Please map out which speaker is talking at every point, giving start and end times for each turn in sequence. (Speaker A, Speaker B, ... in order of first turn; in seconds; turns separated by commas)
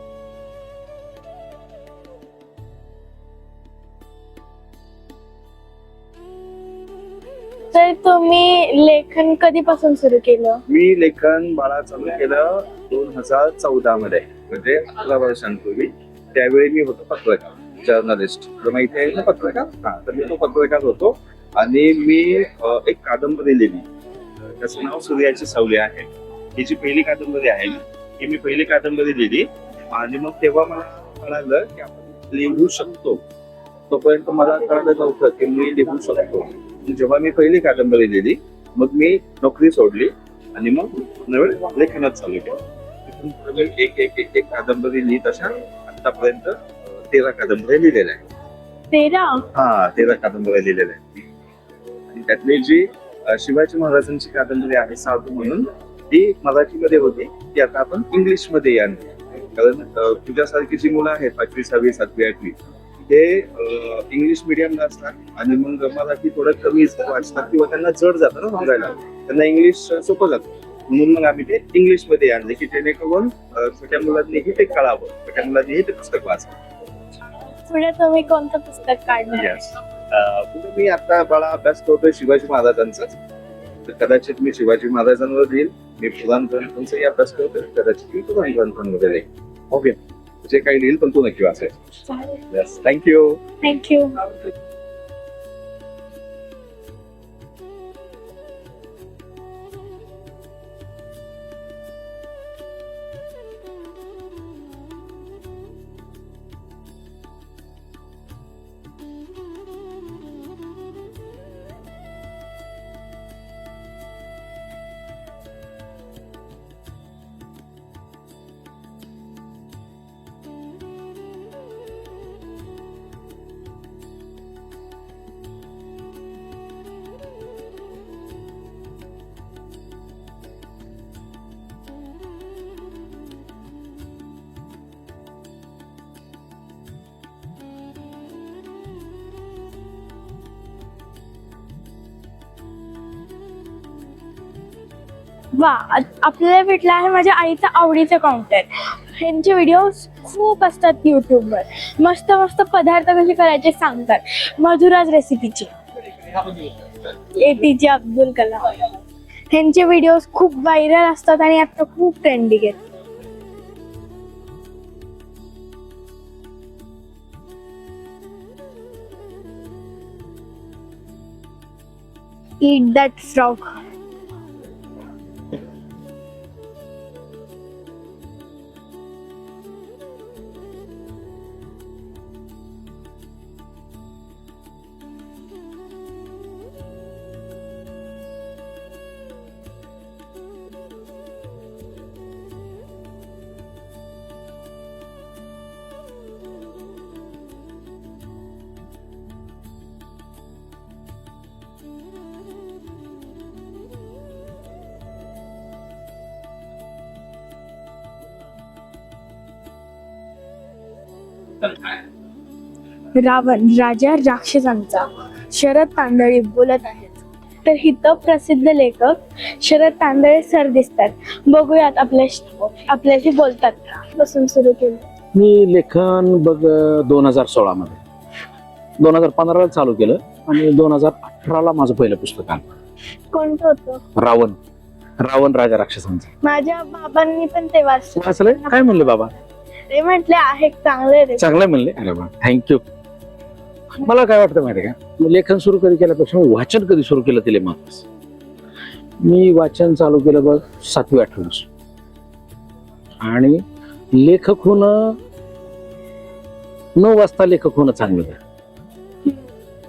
Speaker A: 7.7-10.6, Speaker B: 10.7-23.9, Speaker B: 24.6-33.2, Speaker B: 33.9-48.3, Speaker A: 48.9-49.5, Speaker B: 49.5-51.2, Speaker B: 52.1-62.6, Speaker B: 63.1-76.5, Speaker A: 77.7-79.6, Speaker B: 79.3-83.2, Speaker B: 83.9-91.7, Speaker A: 92.1-92.4, Speaker B: 92.5-93.4, Speaker A: 93.6-94.2, Speaker A: 145.6-155.7, Speaker A: 157.4-158.7, Speaker A: 159.5-162.8, Speaker A: 172.6-173.7, Speaker A: 213.2-225.1, Speaker C: 225.3-228.0, Speaker C: 229.0-232.7, Speaker A: 233.3-234.0, Speaker C: 234.2-234.6, Speaker C: 235.2-236.3, Speaker A: 236.4-239.0, Speaker C: 238.2-239.3, Speaker A: 239.9-241.5, Speaker C: 241.4-242.8, Speaker C: 244.0-248.0, Speaker C: 249.2-251.7, Speaker C: 253.2-253.6, Speaker C: 254.2-255.2, Speaker C: 257.0-258.4